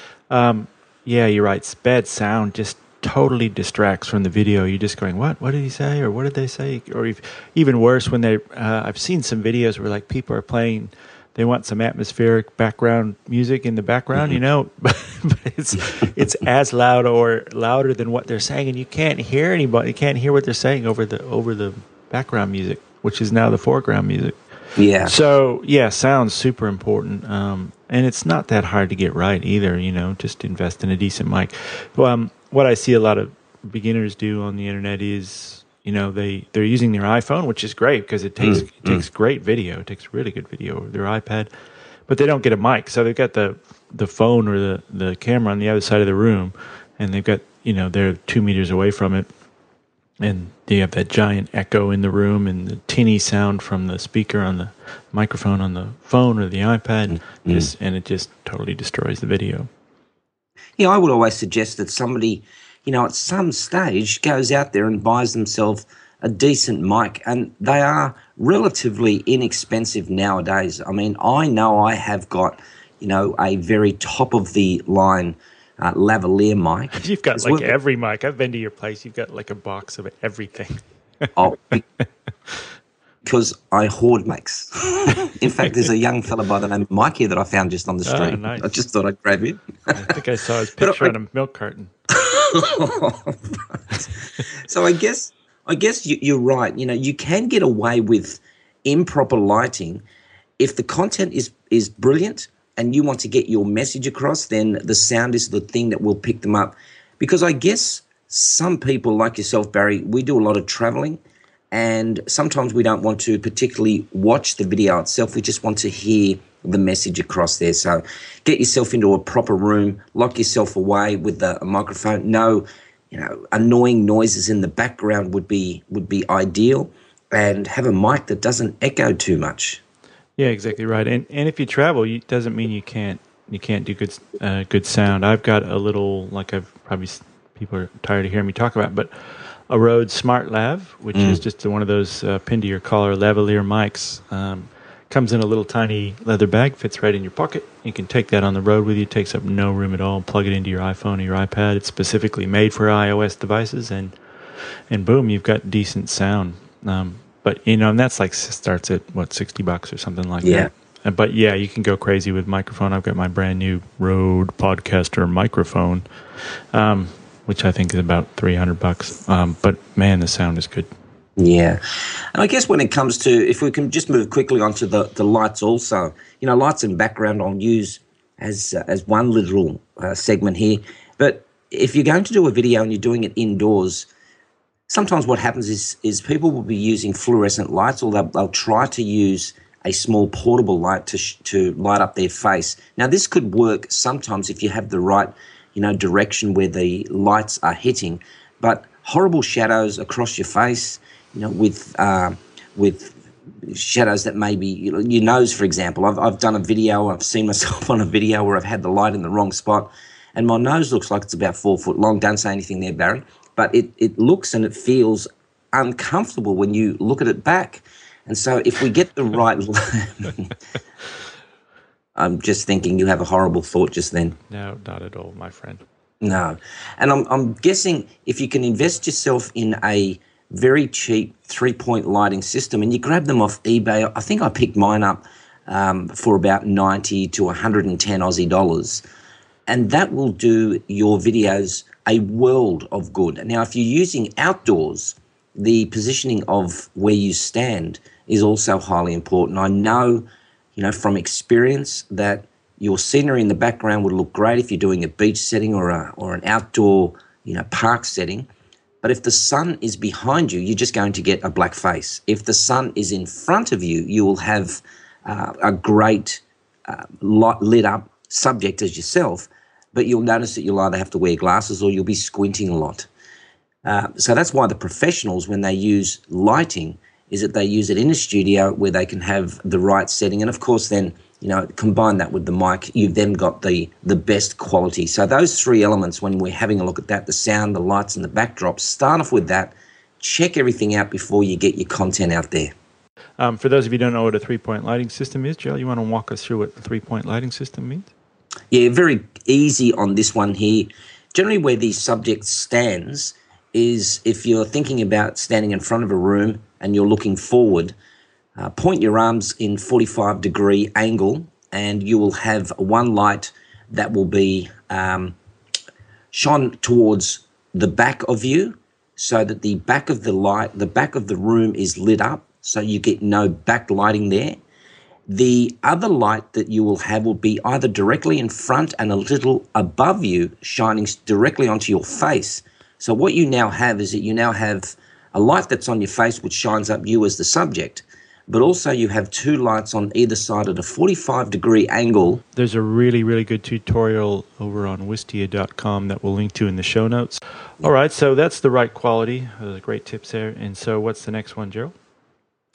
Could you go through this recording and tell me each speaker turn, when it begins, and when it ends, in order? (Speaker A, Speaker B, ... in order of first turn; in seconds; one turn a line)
Speaker A: 0.3-24.4
Speaker B: 24.8-25.1
Speaker A: 25.0-41.5
Speaker B: 38.4-39.0
Speaker A: 42.1-49.3
Speaker A: 50.2-59.7
Speaker B: 60.8-77.7
Speaker A: 76.9-81.3
Speaker B: 81.3-81.8
Speaker B: 83.2-90.2
Speaker A: 88.0-88.8
Speaker A: 89.9-91.9
Speaker B: 90.8-91.1
Speaker B: 92.1-100.0
Speaker B: 100.6-111.2
Speaker B: 111.7-129.8
Speaker A: 130.4-154.1
Speaker B: 141.1-141.4
Speaker A: 154.9-166.0
Speaker B: 160.4-160.7
Speaker A: 166.7-170.9
Speaker B: 171.4-171.8
Speaker B: 172.3-184.1
Speaker B: 184.9-220.5
Speaker B: 222.2-224.4
Speaker A: 224.5-225.8
Speaker B: 226.2-239.0
Speaker B: 239.7-258.5
Speaker B: 259.0-273.1
Speaker B: 273.8-292.7
Speaker A: 293.4-298.1
Speaker B: 298.7-307.9
Speaker B: 308.6-315.4
Speaker B: 316.3-324.6
Speaker B: 325.3-342.4
Speaker A: 342.5-351.9